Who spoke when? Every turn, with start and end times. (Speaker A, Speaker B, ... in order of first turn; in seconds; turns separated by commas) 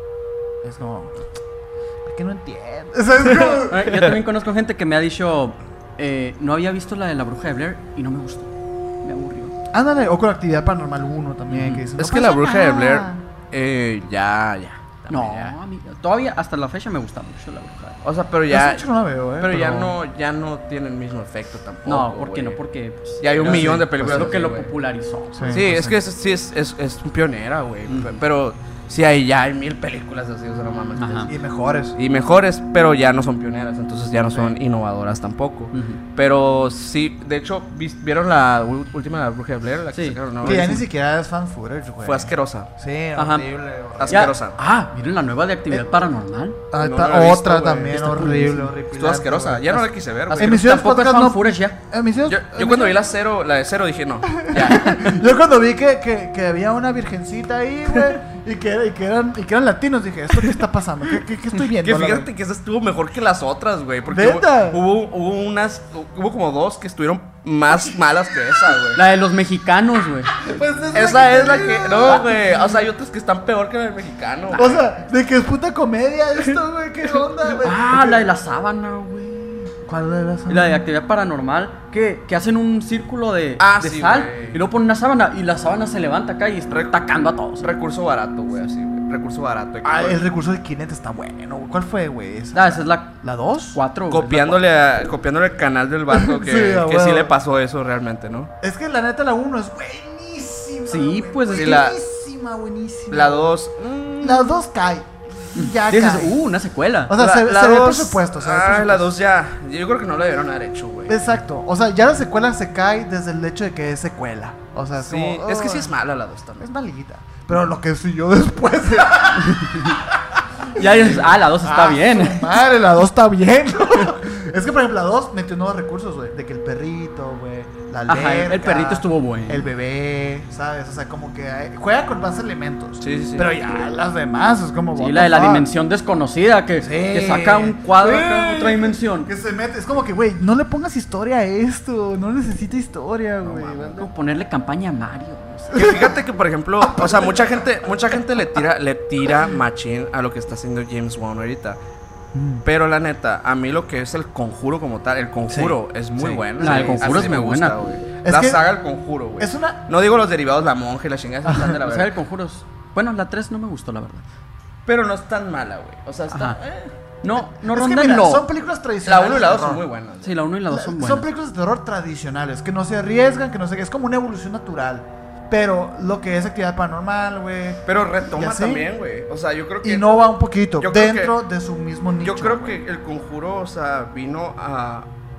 Speaker A: 0.6-1.2, Speaker A: 2.0-3.9, Speaker B: 3.4-4.1, Speaker C: 3.6-8.5, Speaker C: 9.0-9.5, Speaker A: 9.7-13.2, Speaker C: 11.5-11.8, Speaker B: 12.0-15.5, Speaker C: 15.1-18.0, Speaker B: 18.0-18.9, Speaker A: 18.5-19.9, Speaker B: 19.4-22.6, Speaker C: 21.8-25.6, Speaker B: 23.2-24.7, Speaker A: 23.4-24.4, Speaker A: 25.3-26.0, Speaker B: 25.5-31.4, Speaker C: 27.9-28.1, Speaker C: 30.9-31.3, Speaker A: 31.3-31.9, Speaker B: 31.9-40.8, Speaker C: 35.7-36.0, Speaker C: 39.9-40.8, Speaker A: 40.4-44.3, Speaker B: 42.0-42.7, Speaker C: 43.1-43.5, Speaker B: 44.0-44.6, Speaker C: 44.1-46.6, Speaker A: 46.7-53.0, Speaker B: 46.8-48.2, Speaker C: 47.9-48.7, Speaker B: 48.9-50.6, Speaker C: 50.3-51.8, Speaker B: 52.2-55.1, Speaker A: 54.3-62.3, Speaker B: 61.8-69.0, Speaker A: 64.1-64.8, Speaker C: 68.9-70.4, Speaker A: 70.4-72.8, Speaker B: 70.9-74.8, Speaker A: 74.5-78.3, Speaker C: 77.6-79.7, Speaker A: 79.8-80.8, Speaker C: 80.5-87.7, Speaker B: 83.6-84.6, Speaker B: 86.7-87.0, Speaker B: 87.6-90.2, Speaker A: 89.8-93.8, Speaker C: 92.5-93.2, Speaker C: 93.7-94.6, Speaker B: 94.1-98.5, Speaker A: 96.1-97.3, Speaker A: 98.6-103.5, Speaker C: 100.9-101.8, Speaker B: 101.5-102.0, Speaker B: 103.1-104.6, Speaker A: 104.2-106.4, Speaker C: 105.5-107.1, Speaker A: 107.1-109.1, Speaker B: 107.2-111.2, Speaker A: 111.1-115.9, Speaker B: 115.0-116.7, Speaker A: 116.6-135.7, Speaker C: 119.4-120.0, Speaker C: 120.7-122.5, Speaker C: 128.1-129.7, Speaker B: 133.0-133.5, Speaker C: 134.9-139.3, Speaker A: 136.8-144.1, Speaker C: 143.5-146.0, Speaker A: 145.7-146.1, Speaker B: 145.7-151.8, Speaker A: 146.8-147.6, Speaker A: 152.3-152.6, Speaker B: 152.6-162.1, Speaker A: 155.5-157.3, Speaker C: 156.6-157.8, Speaker A: 158.2-158.6, Speaker A: 159.4-159.8, Speaker A: 161.4-161.8, Speaker C: 161.8-164.2, Speaker B: 164.8-166.9, Speaker C: 166.3-166.6, Speaker C: 167.2-168.4, Speaker A: 167.3-169.8, Speaker B: 169.0-170.4, Speaker C: 170.2-171.3, Speaker A: 170.7-178.9, Speaker B: 177.8-181.3, Speaker A: 179.8-182.8, Speaker B: 182.2-185.1